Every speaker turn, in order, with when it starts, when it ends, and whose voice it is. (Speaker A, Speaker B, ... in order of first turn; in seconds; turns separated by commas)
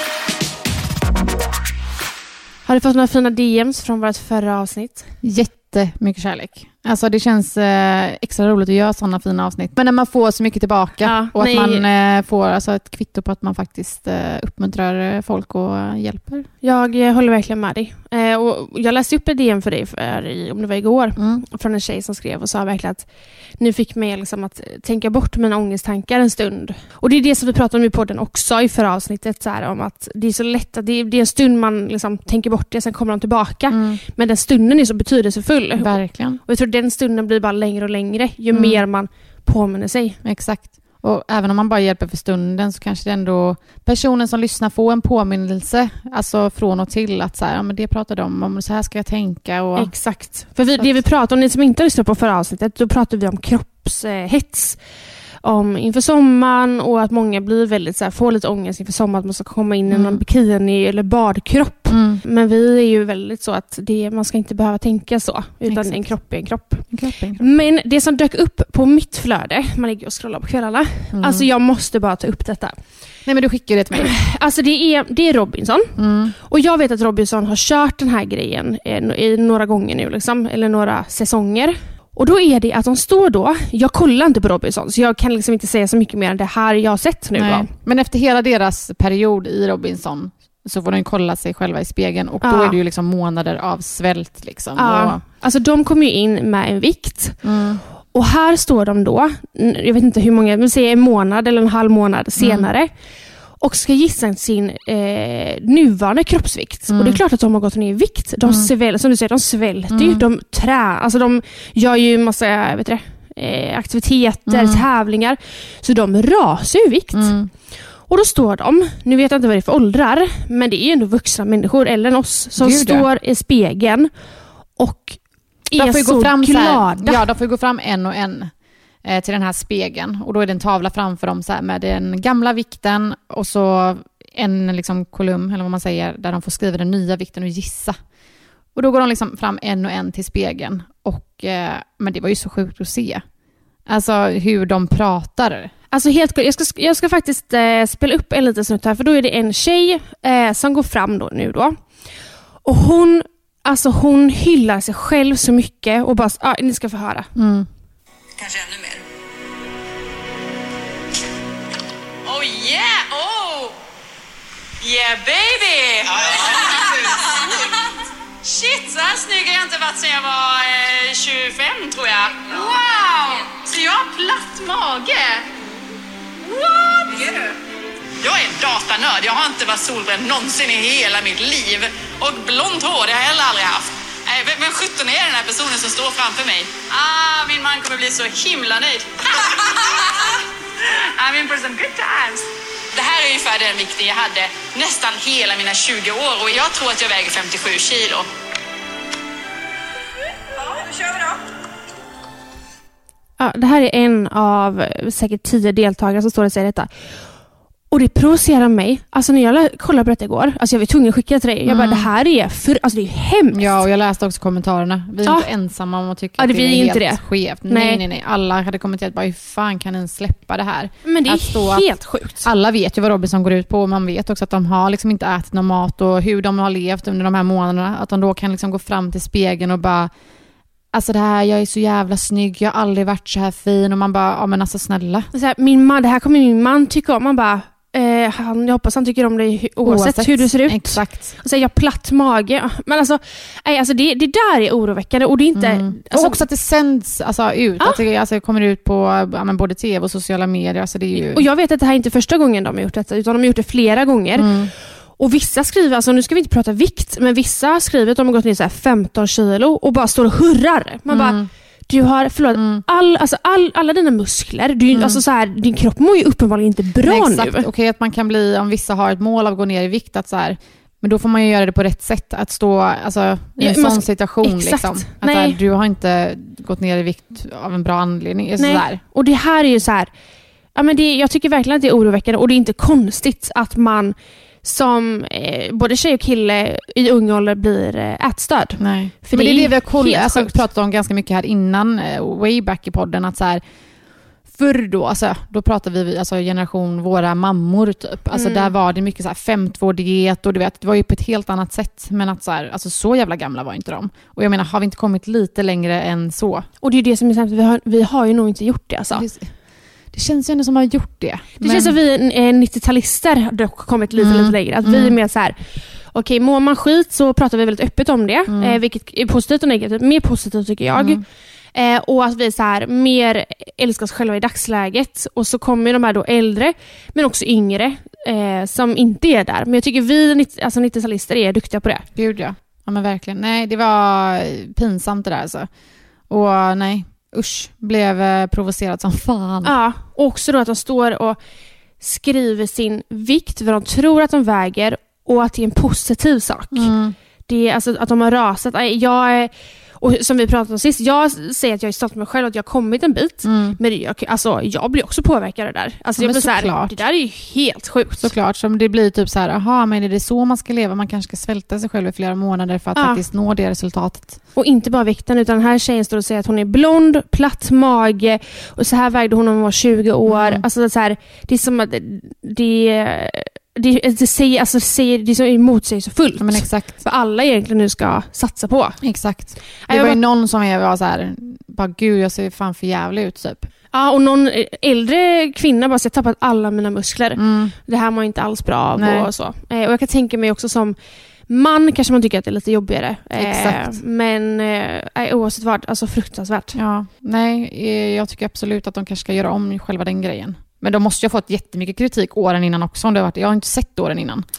Speaker A: 2.6-5.0, Speaker B: 5.2-16.5, Speaker A: 11.0-11.8, Speaker A: 16.6-23.1, Speaker B: 21.2-21.4, Speaker A: 23.6-40.2, Speaker B: 33.7-34.0, Speaker B: 35.8-36.4, Speaker B: 38.5-38.8, Speaker B: 40.2-50.0, Speaker A: 49.7-54.8, Speaker A: 55.4-66.9, Speaker B: 59.9-60.2, Speaker B: 61.9-62.2, Speaker B: 65.7-66.1, Speaker B: 66.9-67.4, Speaker A: 67.4-72.7, Speaker B: 71.1-71.5, Speaker B: 73.2-74.2, Speaker A: 74.0-87.7, Speaker B: 76.0-76.3, Speaker B: 87.3-95.2, Speaker A: 92.4-92.8, Speaker A: 94.8-97.4, Speaker B: 97.4-97.8, Speaker A: 98.1-102.9, Speaker B: 102.4-102.7, Speaker A: 103.6-117.3, Speaker B: 106.9-107.2, Speaker B: 109.9-110.2, Speaker B: 114.5-114.8, Speaker B: 117.1-117.5, Speaker A: 118.1-124.1, Speaker B: 122.6-123.0, Speaker A: 124.8-127.2, Speaker B: 125.8-128.5, Speaker B: 129.0-138.0, Speaker B: 138.7-143.2, Speaker B: 143.9-145.7, Speaker A: 145.9-151.8, Speaker A: 152.6-157.3, Speaker B: 157.3-157.7, Speaker C: 158.4-158.9, Speaker C: 162.2-163.7, Speaker C: 164.8-167.7, Speaker C: 168.4-175.5, Speaker C: 176.4-177.5, Speaker C: 178.2-190.4, Speaker C: 191.2-198.3, Speaker A: 203.4-206.9, Speaker A: 207.9-213.8, Speaker B: 211.7-212.1, Speaker B: 213.5-221.9, Speaker A: 216.4-218.0, Speaker A: 221.0-222.5, Speaker B: 222.4-230.1, Speaker B: 230.9-235.3, Speaker A: 235.3-246.4, Speaker B: 239.8-241.3, Speaker B: 245.6-251.4, Speaker A: 251.1-267.7, Speaker B: 254.3-254.7, Speaker B: 261.1-261.5, Speaker B: 262.5-262.8, Speaker B: 264.9-265.2, Speaker B: 267.0-279.0, Speaker A: 273.6-275.6, Speaker A: 278.6-280.1, Speaker A: 280.7-290.6, Speaker B: 288.8-293.6, Speaker B: 294.5-306.7, Speaker A: 298.3-298.7, Speaker A: 306.8-309.2, Speaker B: 309.1-309.5, Speaker B: 310.1-312.0, Speaker A: 311.6-315.6, Speaker B: 314.2-315.1, Speaker A: 316.1-321.2, Speaker B: 318.5-318.8, Speaker B: 320.9-321.2, Speaker A: 321.7-332.1, Speaker B: 332.1-335.7, Speaker B: 336.3-339.7, Speaker A: 339.6-341.4, Speaker A: 342.0-346.9, Speaker B: 346.7-347.1, Speaker A: 347.5-358.3, Speaker B: 353.4-353.8, Speaker B: 356.2-357.0, Speaker B: 358.2-364.4, Speaker A: 362.9-363.2, Speaker A: 364.6-379.0, Speaker B: 370.3-370.6, Speaker B: 376.4-377.0, Speaker B: 379.0-383.7, Speaker A: 379.8-380.2, Speaker A: 383.9-390.9, Speaker B: 387.4-387.7, Speaker B: 389.0-389.3, Speaker A: 391.5-396.8, Speaker B: 393.4-394.0, Speaker B: 396.7-404.4